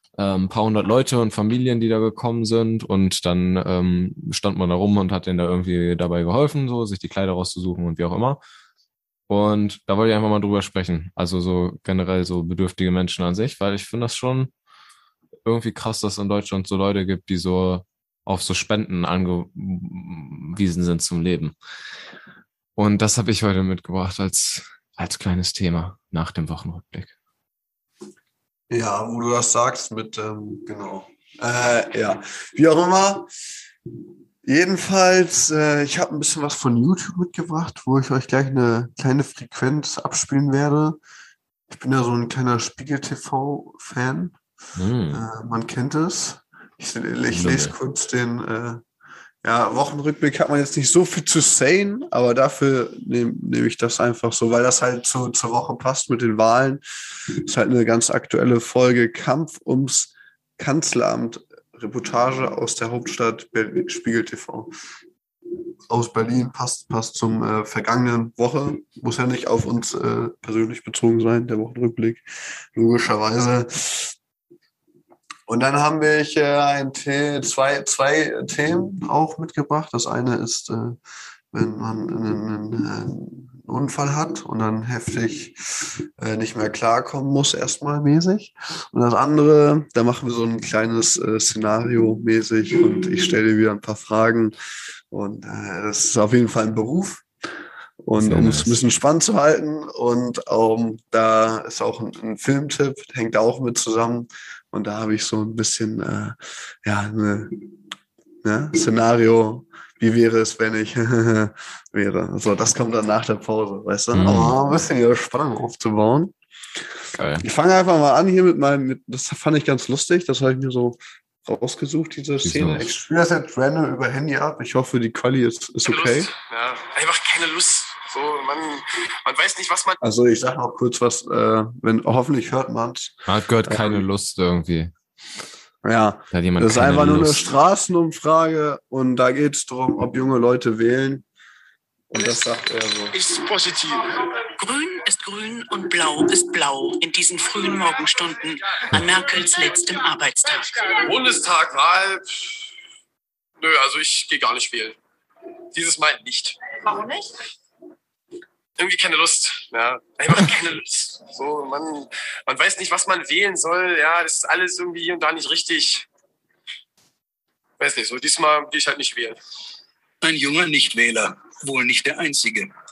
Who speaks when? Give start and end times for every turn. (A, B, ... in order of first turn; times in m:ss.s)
0:00.2-0:08.4 A
0:09.3-0:14.5 A
0:15.4-0:21.5 A
0:22.8-0:27.1 A
0:28.7-0:33.3 B
0:34.4-0:41.0 B
0:41.7-0:44.3 B
0:44.8-0:45.2 A
0:45.1-0:48.8 B
0:47.3-0:47.7 A
0:49.4-0:56.8 B
0:57.4-1:04.7 B
1:05.9-1:14.2 B
1:15.5-1:21.0 B
1:21.5-1:25.6 B
1:26.2-1:34.5 B
1:35.1-1:37.2 B
1:38.0-1:47.6 B
1:38.2-1:38.7 A
1:48.4-1:56.3 B
1:54.1-1:54.6 A
1:57.1-1:57.4 A
1:57.4-2:06.3 B
2:02.4-2:02.9 A
2:05.8-2:10.0 C
2:10.0-2:14.0 B
2:13.2-2:14.9 A
2:15.8-2:21.2 B
2:16.3-2:17.4 A
2:22.1-2:23.1 B
2:23.2-2:24.0 C
2:24.6-2:31.0 D
2:31.0-2:32.5 C
2:33.6-2:35.0 C
2:35.7-2:36.7 C
2:36.9-2:37.3 D
2:38.8-2:46.1 C
2:47.8-2:49.4 C
2:50.2-2:52.7 E